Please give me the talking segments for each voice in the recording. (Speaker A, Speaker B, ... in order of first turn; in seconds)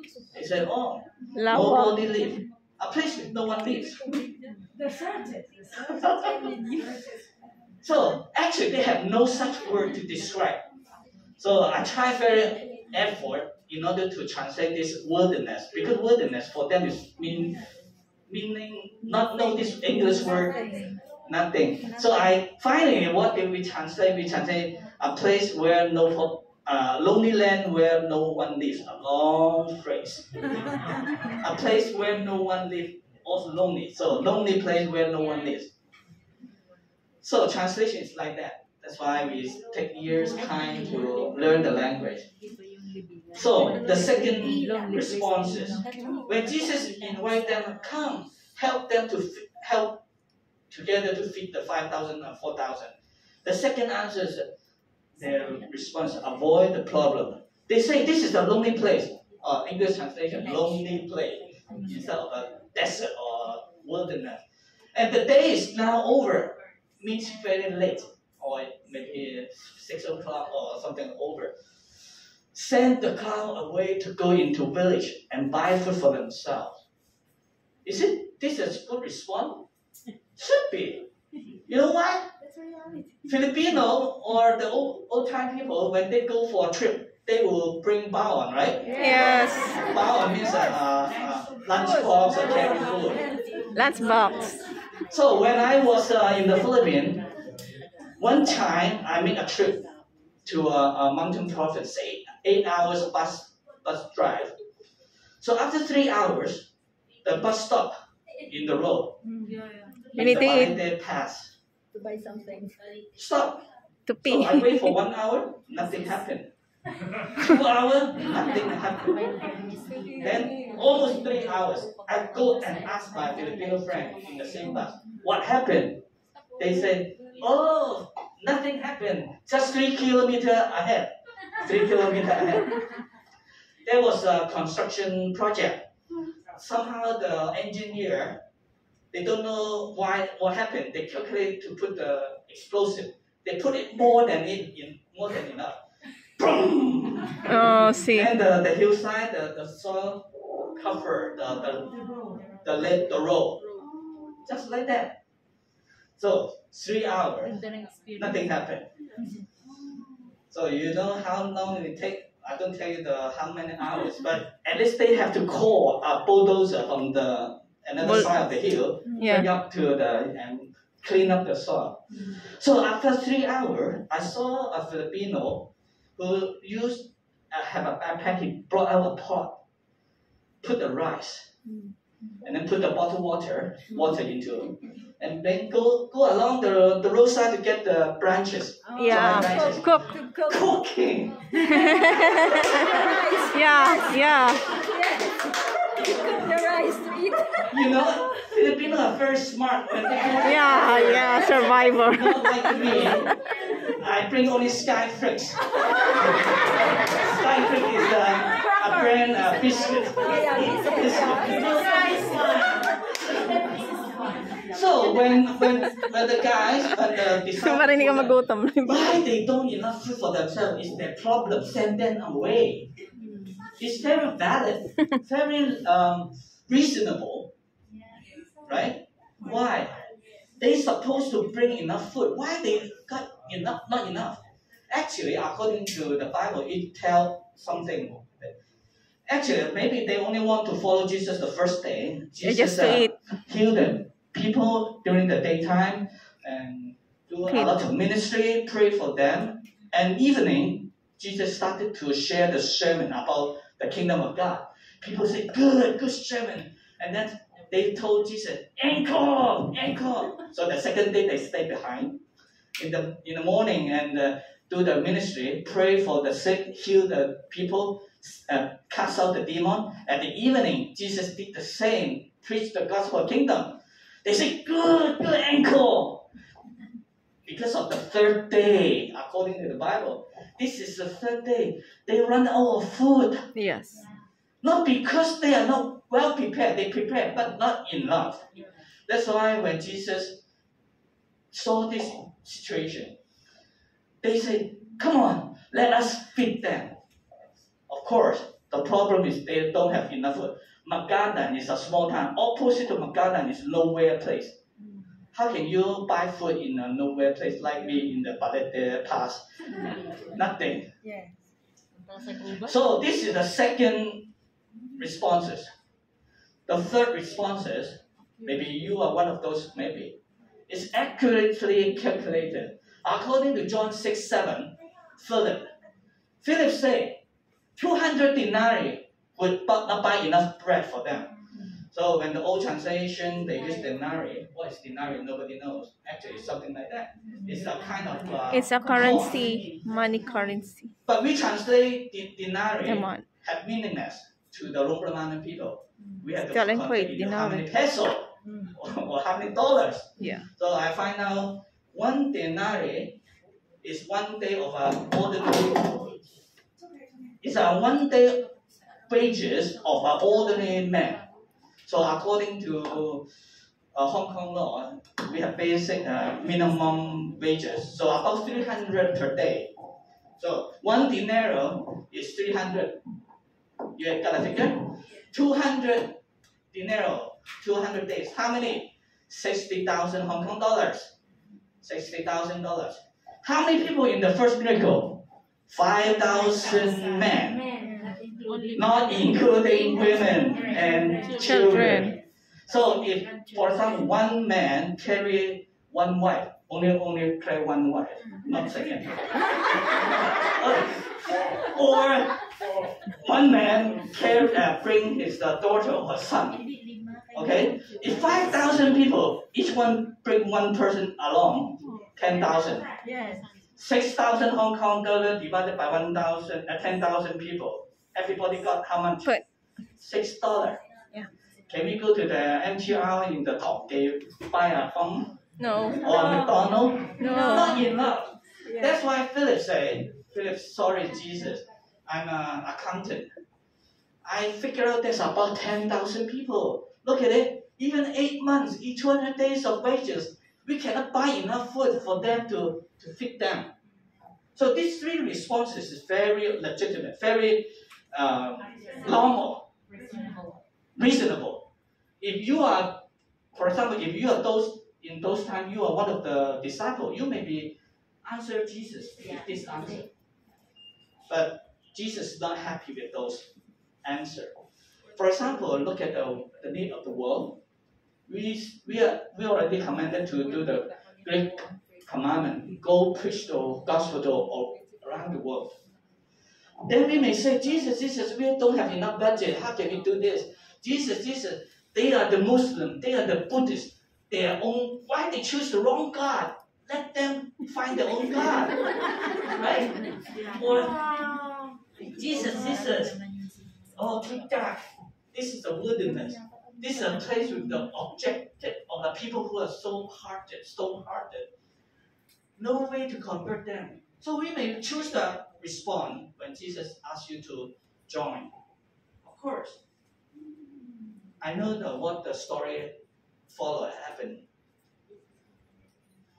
Speaker A: 0.3-4.0, 6.0-6.3, 7.8-10.6, 11.4-17.6, 18.3-20.6, 21.3-30.3, 31.4-35.7, 37.2-42.3, 43.3-50.0, 50.7-54.5, 55.2-64.4, 64.9-71.5, 72.5-76.8, 77.8-79.7, 80.3-81.1, 81.7-82.3, 83.2-93.2, 95.1-97.2, 98.2-99.8, 100.4-104.5, 105.4-106.7, 107.2-107.9, 108.5-109.2, 110.2-111.5, 113.2-113.6, 114.2-116.5, 117.4-119.2, 120.2-126.0, 126.6-132.7, 133.8-135.9, 136.6-138.4, 139.1-145.8, 146.4-147.5, 148.1-151.9, 152.6-153.6, 154.4-155.2, 156.2-157.6, 158.2-158.9, 160.5-179.6, 180.6-181.5, 182.4-189.9, 190.4-191.4, 197.7-201.2, 202.1-203.3, 204.0-205.6, 207.1-211.9, 214.7-222.9, 223.8-227.5, 228.7-230.0, 230.6-234.4, 234.9-238.5, 239.3-262.2, 262.8-276.3, 277.4-283.5, 284.6-288.4, 289.1-290.4, 291.5-293.1, 294.2-297.0, 297.9-304.6, 305.3-309.4, 310.3-310.9, 312.5-314.3, 315.0-315.7, 316.7-320.2, 320.7-325.7, 326.4-327.2, 327.8-331.3, 331.9-339.3, 341.1-353.2, 353.8-356.1, 357.4-358.4, 359.1-361.2, 361.9-363.2, 363.9-369.7, 370.4-373.0, 373.9-376.1, 376.7-381.1, 381.8-387.6, 388.7-392.1, 392.7-399.2, 399.9-401.1, 401.6-402.4, 403.2-406.6, 407.3-412.9, 413.8-419.4, 420.0-420.8, 421.7-425.3, 425.9-433.3, 434.2-443.7, 444.5-449.6, 450.9-451.6, 452.2-460.1, 461.3-463.5, 464.0-464.6, 465.1-467.6, 468.3-475.8, 476.9-488.8, 489.5-491.1, 492.1-493.2, 493.9-501.5, 502.6-508.5, 509.2-509.8, 511.4-512.9, 513.5-514.4
Speaker B: 1.4-2.1, 89.0-89.8, 93.7-94.6, 110.2-110.8, 114.1-115.0, 147.4-148.3, 168.0-168.3, 169.2-169.5, 188.9-190.2, 191.6-194.6, 200.4-203.2, 217.3-219.2, 242.4-243.2, 247.4-247.7, 283.5-284.1, 338.5-340.9, 342.8-343.2, 346.5-347.7, 350.2-350.5, 391.4-392.1, 425.6-426.6, 427.2-427.8
Speaker C: 4.8-7.0, 20.6-20.9, 111.9-112.8, 189.0-190.6, 191.7-194.1, 194.9-195.4, 195.9-197.6, 208.6-209.2, 210.2-212.0, 311.0-311.3, 413.0-413.4